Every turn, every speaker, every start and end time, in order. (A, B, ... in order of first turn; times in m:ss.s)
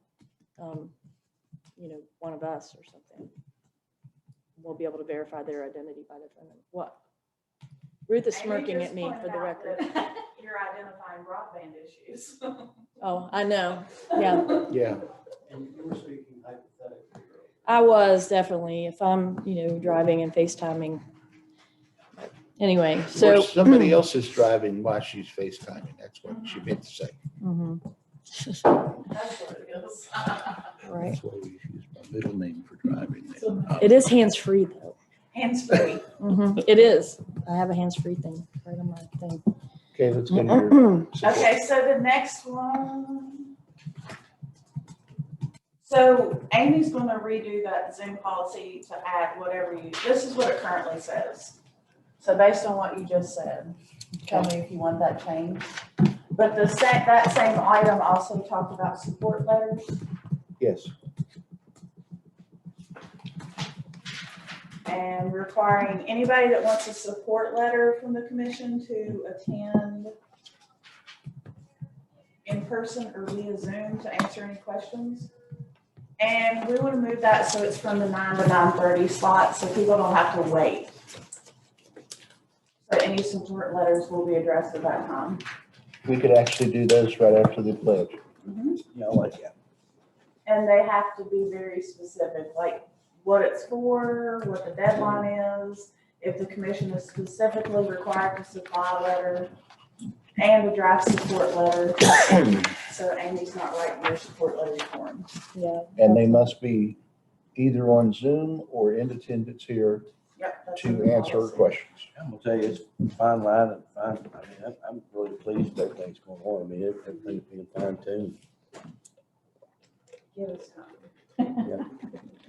0:00.6-0:00.9 A
0:01.8-0:03.3 A
0:04.6-0:07.0 A
0:08.1-0:10.0 A
0:08.3-0:12.7 B
0:13.0-0:14.6 A
0:14.7-0:15.0 C
0:15.5-0:18.2 D
0:17.6-0:21.0 A
0:22.2-0:24.0 A
0:23.1-0:27.2 C
0:27.4-0:28.8 A
0:29.0-0:30.6 B
0:30.8-0:31.2 A
0:30.9-0:34.1 C
0:33.8-0:35.0 A
0:35.3-0:36.1 B
0:36.2-0:39.5 A
0:39.9-0:41.5 C
0:40.3-0:41.1 A
0:41.2-0:43.5 B
0:45.8-0:51.6 B
0:52.2-0:55.7 B
0:56.3-1:00.0 B
1:00.6-1:00.9 C
1:04.9-1:10.1 B
1:12.4-1:15.3 B
1:16.2-1:21.0 B
1:22.9-1:25.4 B
1:26.0-1:28.2 C
1:28.4-1:28.8 B
1:28.9-1:29.5 E
1:30.5-1:39.5 B
1:40.4-1:45.3 B
1:45.6-1:46.5 A
1:46.0-1:47.0 C
1:47.6-1:50.1 C
1:50.4-1:51.8 B
1:50.8-1:52.1 C
1:52.2-1:58.4 E
2:00.3-2:01.0 B